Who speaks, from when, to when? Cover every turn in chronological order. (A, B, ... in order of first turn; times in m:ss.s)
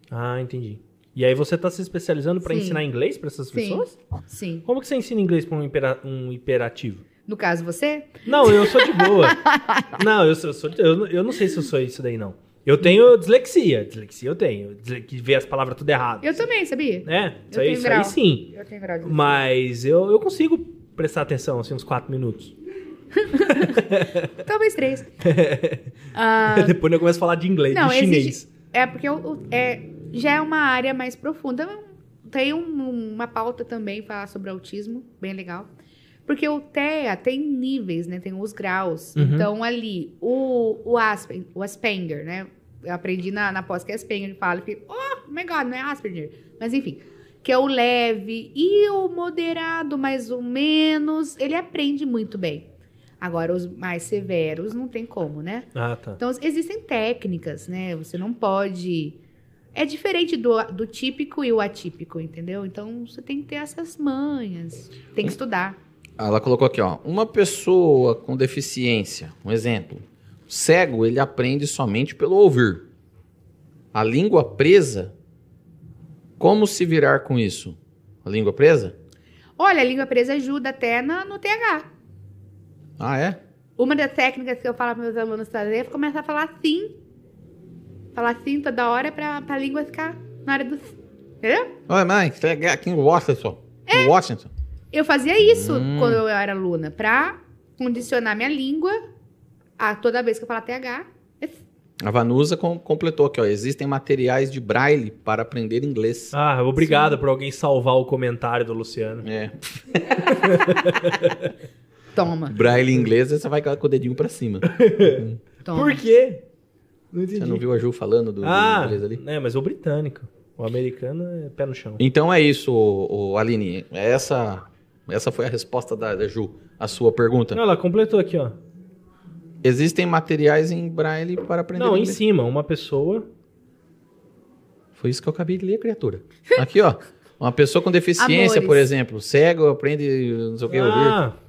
0:00.1-0:04.0 A
0:02.4-0:02.8 B
0:03.5-0:04.7 B
0:04.7-0:07.0 A
0:07.3-0:10.0 B
0:08.3-0:16.4 A
0:16.2-0:19.4 B
0:17.0-0:18.5 A
0:19.0-0:22.5 A
0:23.2-0:23.8 B
0:23.5-0:24.3 A
0:24.4-0:25.1 B
0:25.2-0:25.9 A
0:26.1-0:26.8 B
0:26.4-0:28.5 A
0:27.7-0:35.7 B
0:36.3-0:52.7 B
0:39.2-0:39.5 A
0:53.2-0:59.2 B
0:55.8-0:56.2 A
0:59.7-1:05.8 B
1:06.2-1:12.8 C
1:13.9-1:15.1 C
1:16.4-1:19.0 C
1:19.6-1:21.9 B
1:23.0-1:23.4 C
1:23.8-1:27.0 B
1:28.1-1:31.7 B
1:31.9-1:34.5 C
1:33.9-1:34.2 B
1:34.9-1:39.0 B
1:35.5-1:36.2 C
1:39.8-1:41.6 B
1:42.0-1:46.3 C
1:46.3-1:49.2 A
1:46.8-1:47.2 B
1:49.2-1:50.1 C
1:50.2-1:51.5 A
1:52.1-1:52.6 B
1:52.5-1:55.4 C
1:54.7-1:56.4 A
1:55.6-1:56.0 B
1:57.1-1:57.6 A
1:57.4-1:59.2 C
1:58.4-2:02.0 A
2:02.0-2:07.6 C
2:07.5-2:08.6 A
2:09.6-2:12.2 C
2:11.8-2:13.3 A
2:15.0-2:21.2 C
2:18.2-2:18.9 B
2:20.7-2:21.4 A